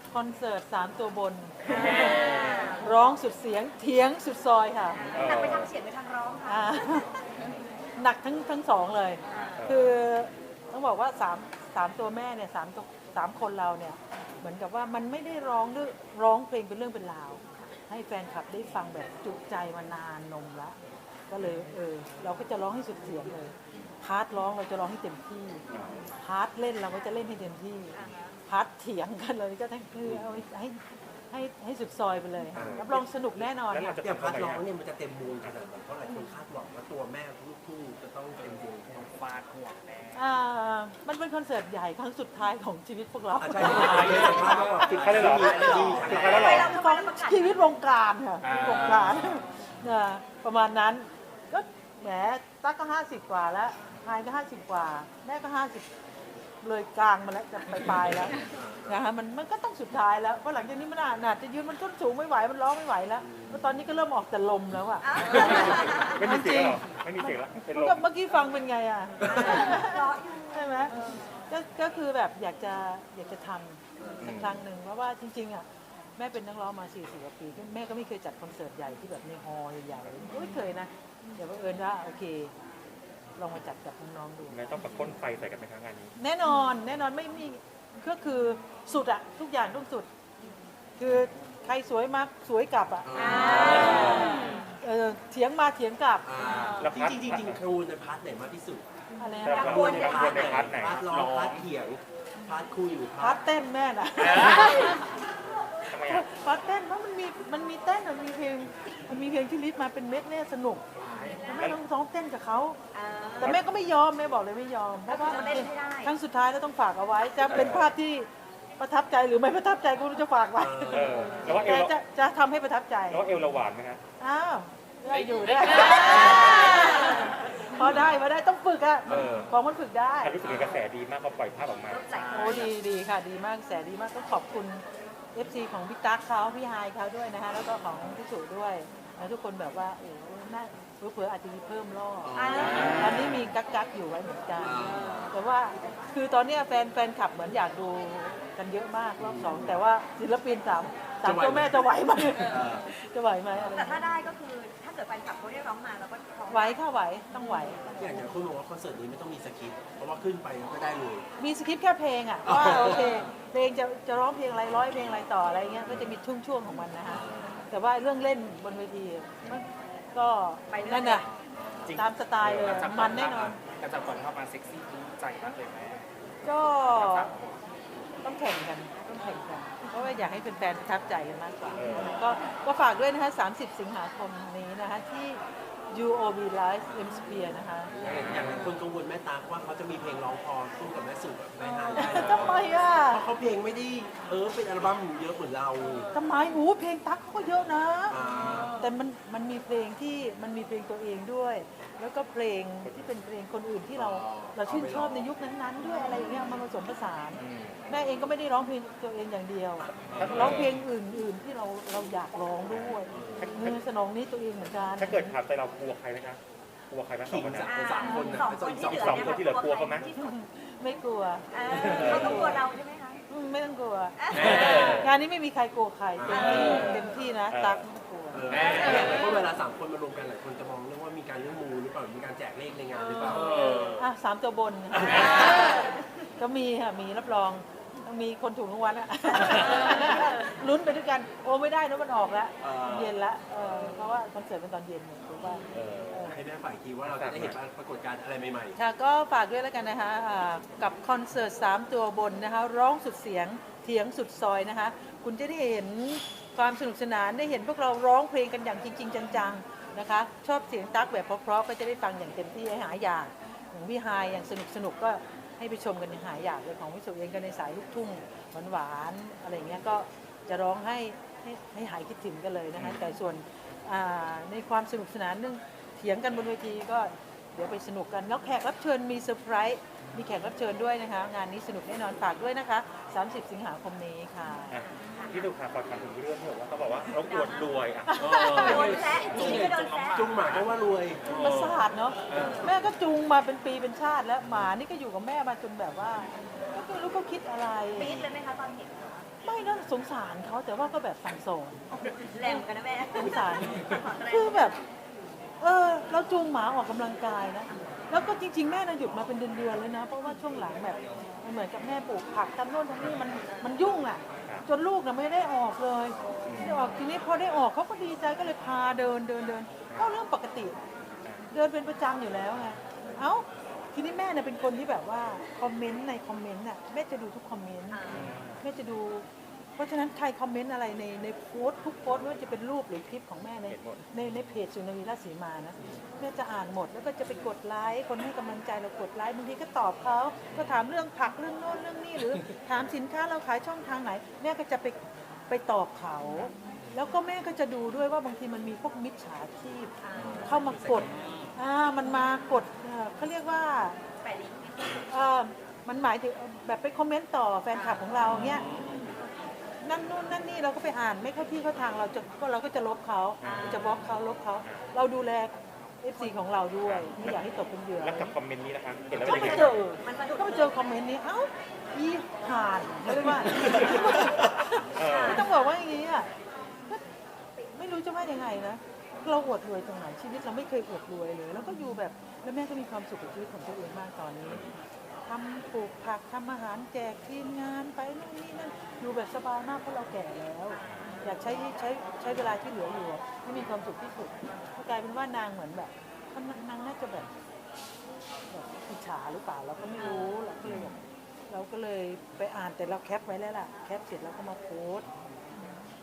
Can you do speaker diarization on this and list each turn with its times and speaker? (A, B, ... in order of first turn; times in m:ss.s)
0:00.1-0:05.4 A
0:01.7-0:02.9 B
0:01.7-0:02.7 C
0:05.0-0:07.0 B
0:05.1-0:05.7 D
0:06.4-0:07.1 A
0:08.0-0:20.8 A
0:09.3-0:09.6 B
0:09.6-0:09.9 D
0:21.3-0:25.6 A
0:25.7-0:26.0 D
0:26.2-0:34.0 A
0:27.9-0:28.3 B
0:32.5-0:33.0 E
0:33.5-0:34.7 D
0:34.0-0:39.1 E
0:38.4-0:40.2 C
0:40.1-0:44.7 A
0:43.4-0:46.7 E
0:43.7-0:45.6 C
0:44.9-0:47.5 B
0:44.9-0:46.7 D
0:45.4-0:55.9 A
0:48.4-0:49.4 C
0:56.6-1:15.6 A
0:58.4-0:59.0 E
1:03.2-1:03.8 E
1:05.0-1:06.2 B
1:05.3-1:08.0 D
1:09.2-1:09.8 E
1:09.2-1:11.3 B
1:14.2-1:14.6 D
1:16.2-1:22.5 A
1:23.4-1:24.6 A
1:24.5-1:26.1 D
1:26.2-1:30.1 A
1:31.0-1:36.2 A
1:33.0-1:34.3 E
1:33.1-1:34.6 B
1:33.7-1:34.0 C
1:36.2-1:38.8 E
1:36.4-1:36.9 B
1:36.8-1:37.6 D
1:39.2-1:40.2 A
1:39.2-1:40.7 B
1:39.4-1:41.0 D
1:39.5-1:43.4 E
1:40.9-1:41.7 C
1:43.2-1:45.1 A
1:44.2-1:45.0 C
1:45.9-1:46.3 D
1:46.0-1:50.8 A
1:51.0-1:51.4 E
1:51.4-1:52.8 A
1:51.5-1:51.7 D
1:52.9-1:53.6 B
1:53.4-2:03.2 A
1:55.1-1:56.1 B
1:57.5-1:57.9 E
2:00.6-2:01.7 E
2:00.9-2:01.9 D
2:03.1-2:04.0 D
2:04.2-2:10.5 A
2:05.1-2:06.6 C
2:05.9-2:07.3 B
2:09.1-2:09.5 E
2:09.1-2:09.5 D
2:10.2-2:12.1 D
2:11.9-2:12.7 B
2:12.0-2:12.7 C
2:12.3-2:34.1 A
2:22.2-2:23.4 E
2:22.3-2:23.2 B
2:22.7-2:23.1 D
2:24.6-2:25.3 E
2:29.2-2:29.8 E
2:31.2-2:32.9 E
2:33.7-2:36.8 B
2:36.5-2:37.9 A
2:38.0-2:41.2 E
2:41.4-2:51.3 A
2:42.4-2:43.2 E
2:47.1-2:47.5 E
2:50.7-2:51.2 B
2:51.8-2:56.0 C
2:51.9-2:53.6 A
2:56.4-2:57.3 A
2:56.8-2:57.5 C
2:58.2-3:07.9 A
3:01.7-3:02.1 D
3:06.9-3:07.1 E
3:07.9-3:16.1 E
3:08.0-3:08.6 D
3:12.0-3:13.2 A
3:16.1-3:18.2 A
3:18.1-3:18.8 E
3:18.7-3:35.3 A
3:22.8-3:23.1 D
3:23.9-3:25.3 E
3:27.4-3:27.9 D
3:30.0-3:30.8 D
3:30.2-3:30.6 E
3:32.7-3:33.8 D
3:33.1-3:33.5 E
3:35.0-3:37.7 D
3:37.3-3:39.4 E
3:37.6-3:40.4 B
3:38.0-3:38.6 A
3:38.8-3:40.1 D
3:40.1-3:42.6 A
3:41.5-3:43.2 B
3:41.8-3:42.0 C
3:41.9-3:42.4 D
3:43.3-3:48.4 A
3:44.2-3:45.0 B
3:44.3-3:44.9 E
3:44.3-3:44.9 C
3:44.6-3:45.1 D
3:46.2-3:47.0 E
3:46.3-3:47.0 B
3:46.6-3:47.0 C
3:47.5-3:47.8 D
3:48.3-3:53.6 E
3:48.5-3:49.3 C
3:53.3-3:54.0 C
3:53.9-4:06.4 A
3:54.9-3:55.7 E
3:55.2-3:56.0 B
4:02.6-4:03.1 E
4:05.7-4:06.2 D
4:06.2-4:08.8 E
4:07.0-4:07.6 D
4:08.8-4:44.8 A
4:32.8-4:33.0 D
4:44.7-4:48.3 D
4:45.0-4:45.3 B
4:47.2-4:47.7 B
4:48.1-4:49.0 A
4:48.2-4:52.7 C
4:48.5-4:50.3 B
4:49.3-4:51.2 E
4:51.2-4:58.2 A
4:52.4-4:52.6 E
4:57.9-4:59.2 B
4:59.4-5:01.8 A
5:02.1-5:04.8 B
5:02.4-5:04.8 A
5:05.6-5:20.7 A
5:16.4-5:16.8 D
5:21.5-5:29.2 A
5:27.9-5:28.2 B
5:28.1-5:28.6 D
5:29.8-5:45.0 A
5:33.7-5:34.0 D
5:45.5-5:49.9 A
5:50.0-5:50.5 B
5:50.2-5:51.1 E
5:50.4-5:54.0 A
5:51.0-5:51.5 C
5:54.2-5:55.1 B
5:55.0-5:58.6 A
5:57.7-5:58.5 B
5:58.4-5:59.1 C
5:59.8-6:08.3 A
6:03.4-6:03.8 D
6:03.4-6:03.9 B
6:06.8-6:07.4 D
6:08.0-6:09.8 D
6:09.2-6:10.8 B
6:09.2-6:16.3 A
6:13.5-6:14.3 B
6:13.5-6:14.0 D
6:14.9-6:15.5 D
6:15.0-6:15.5 B
6:17.7-6:24.6 A
6:21.6-6:21.8 B
6:25.2-6:37.3 A
6:30.7-6:31.2 B
6:38.5-6:41.0 A
6:40.0-6:40.3 B
6:40.6-6:40.9 D
6:41.5-6:45.0 A